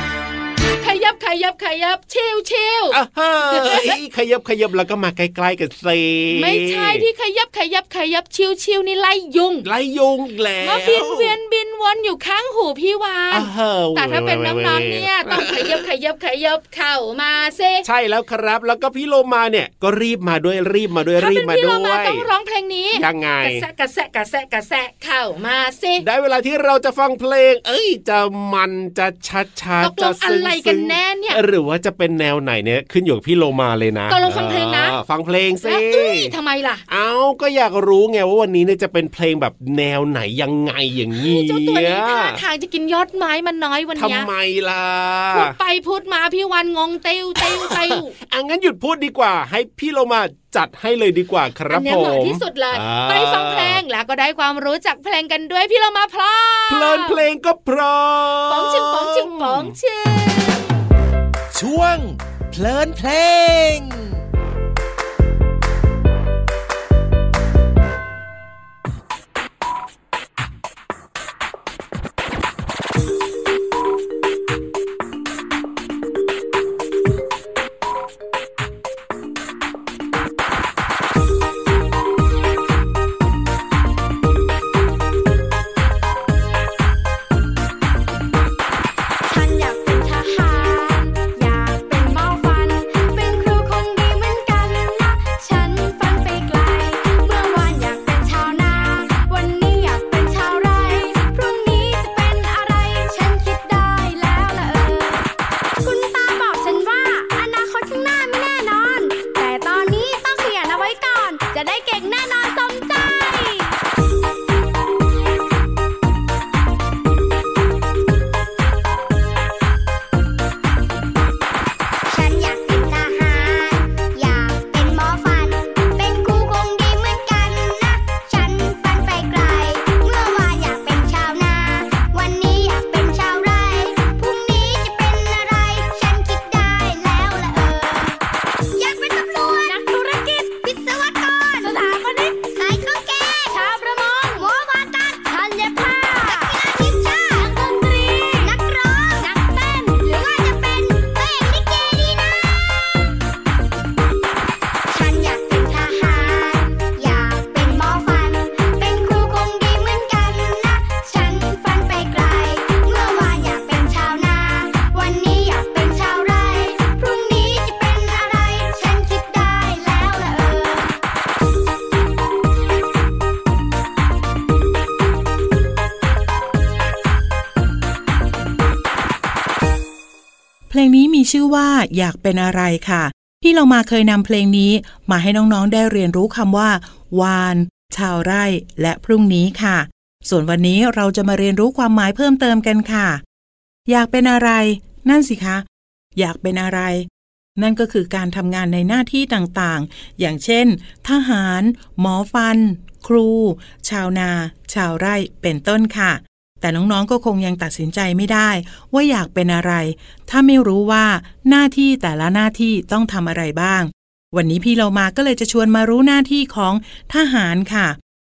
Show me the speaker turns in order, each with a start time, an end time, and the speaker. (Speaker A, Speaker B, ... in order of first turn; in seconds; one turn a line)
Speaker A: 0.8-4.0
Speaker B: 2.9-7.0
Speaker A: 6.3-9.7
Speaker B: 9.6-11.3
Speaker A: 10.6-17.8
Speaker B: 13.3-15.8
Speaker B: 17.8-22.3
Speaker A: 21.2-26.0
Speaker B: 22.9-23.6
Speaker B: 26.0-36.3
Speaker A: 29.8-31.4
Speaker A: 34.1-35.0
Speaker A: 35.6-36.8
Speaker B: 36.9-42.4
Speaker A: 41.2-44.3
Speaker B: 44.0-45.5
Speaker A: 45.3-48.1
Speaker B: 47.4-53.8
Speaker A: 51.7-57.2
Speaker B: 56.7-59.7
Speaker A: 58.5-60.7
Speaker C: 61.5-64.2
Speaker D: 89.2-105.3
Speaker D: 105.8-113.7
Speaker D: 122.0-138.2
Speaker D: 138.7-152.6
Speaker A: 141.6-142.3
Speaker A: 143.5-144.5
Speaker A: 145.3-146.5
Speaker A: 147.4-148.6
Speaker D: 154.9-171.0
Speaker E: 180.7-193.2
Speaker E: 193.9-195.6
Speaker E: 196.2-218.0